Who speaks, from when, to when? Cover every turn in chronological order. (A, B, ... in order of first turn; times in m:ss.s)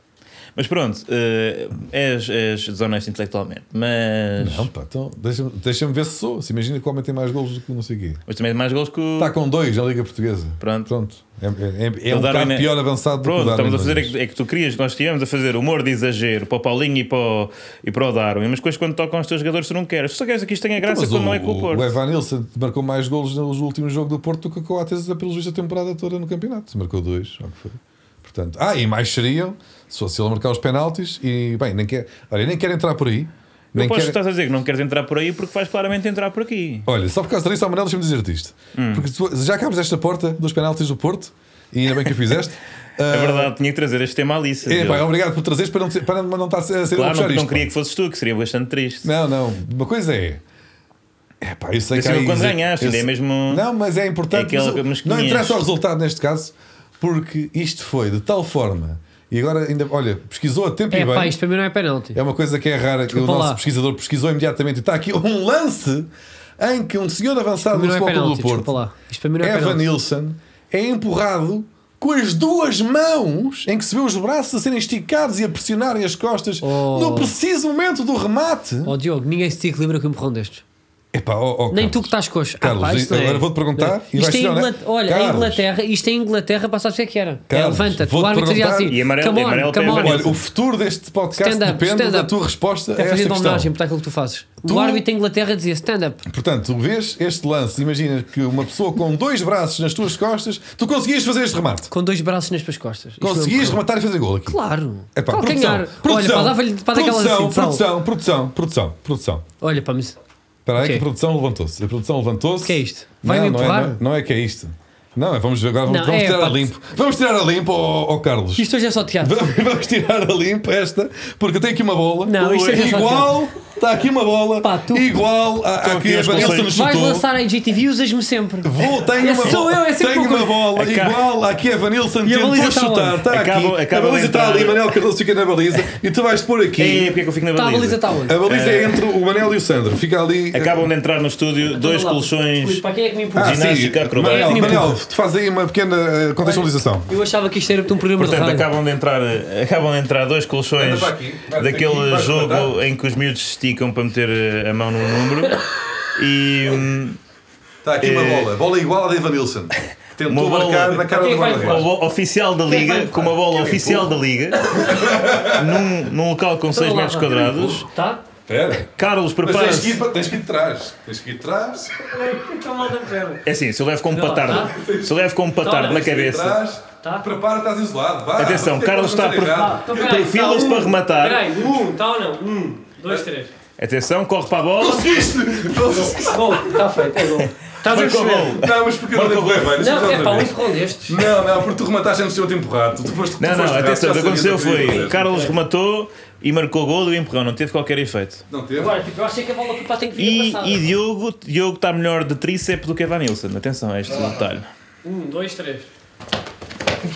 0:00.6-0:04.7 A
0:04.4-0:08.2 B
0:08.3-0:09.3 A
0:09.2-0:14.2 B
0:10.6-0:10.9 A
0:12.1-0:21.9 A
0:20.8-0:34.2 B
0:33.8-0:36.9 A
0:36.9-0:43.5 B
0:38.8-0:39.0 A
0:43.1-0:45.1 A
0:44.7-0:47.7 B
0:46.9-0:49.1 A
0:49.0-0:50.4 B
0:51.4-1:01.4 B
0:51.9-0:53.6 A
0:54.3-0:55.6 A
1:00.9-1:02.2 C
1:02.1-1:08.7 B
1:03.1-1:03.6 C
1:07.7-1:09.9 C
1:09.4-1:19.0 B
1:16.6-1:17.4 C
1:18.8-1:20.6 C
1:21.1-1:25.6 B
1:21.7-1:30.3 C
1:27.5-1:29.0 B
1:28.8-1:30.4 A
1:29.9-1:33.7 B
1:31.4-1:32.3 C
1:32.9-1:36.2 C
1:34.6-1:35.0 B
1:36.3-1:41.9 B
1:41.9-1:43.8 C
1:43.2-1:44.6 B
1:44.5-1:47.8 C
1:45.2-1:49.4 B
1:49.6-1:50.2 C
1:50.7-1:58.7 B
1:50.8-1:51.0 C
1:52.6-1:54.0 C
1:55.9-1:56.7 C
1:58.6-1:59.5 C
1:59.2-2:07.3 B
2:02.2-2:03.4 C
2:02.5-2:02.8 A
2:04.6-2:05.1 C
2:05.8-2:06.7 A
2:06.4-2:10.6 C
2:08.6-2:17.1 B
2:10.8-2:11.3 A
2:12.2-2:13.2 C
2:13.3-2:14.9 A
2:16.8-2:19.0 A
2:17.6-2:18.4 C
2:18.3-2:20.9 B
2:20.5-2:24.9 A
2:21.7-2:25.0 C
2:23.4-2:27.1 B
2:26.4-2:28.7 C
2:28.2-2:35.6 A
2:30.8-2:32.8 B
2:36.2-2:37.2 A
2:37.8-2:41.9 B
2:38.0-2:38.5 A
2:40.3-2:47.9 A
2:41.1-2:41.9 C
2:42.7-2:43.4 C
2:43.6-2:44.1 B
2:44.7-2:45.8 B
2:46.7-2:48.2 C
2:48.5-2:48.9 B
2:48.8-2:50.0 A
2:49.4-2:52.0 B
2:52.0-2:53.5 C
2:53.4-2:56.6 A
2:54.1-2:54.7 C
2:54.5-2:55.2 B
2:55.6-2:56.3 C
2:56.0-2:59.9 B
2:57.0-2:57.3 C
2:58.4-3:01.5 A
2:59.5-3:03.5 C
3:03.8-3:05.3 A
3:04.8-3:06.8 B
3:06.2-3:08.6 C
3:07.8-3:09.9 A
3:08.5-3:15.4 B
3:09.8-3:11.2 C
3:13.4-3:18.4 A
3:15.1-3:15.5 C
3:18.5-3:19.0 B
3:18.8-3:20.9 C
3:20.2-3:24.7 A
3:25.0-3:25.9 C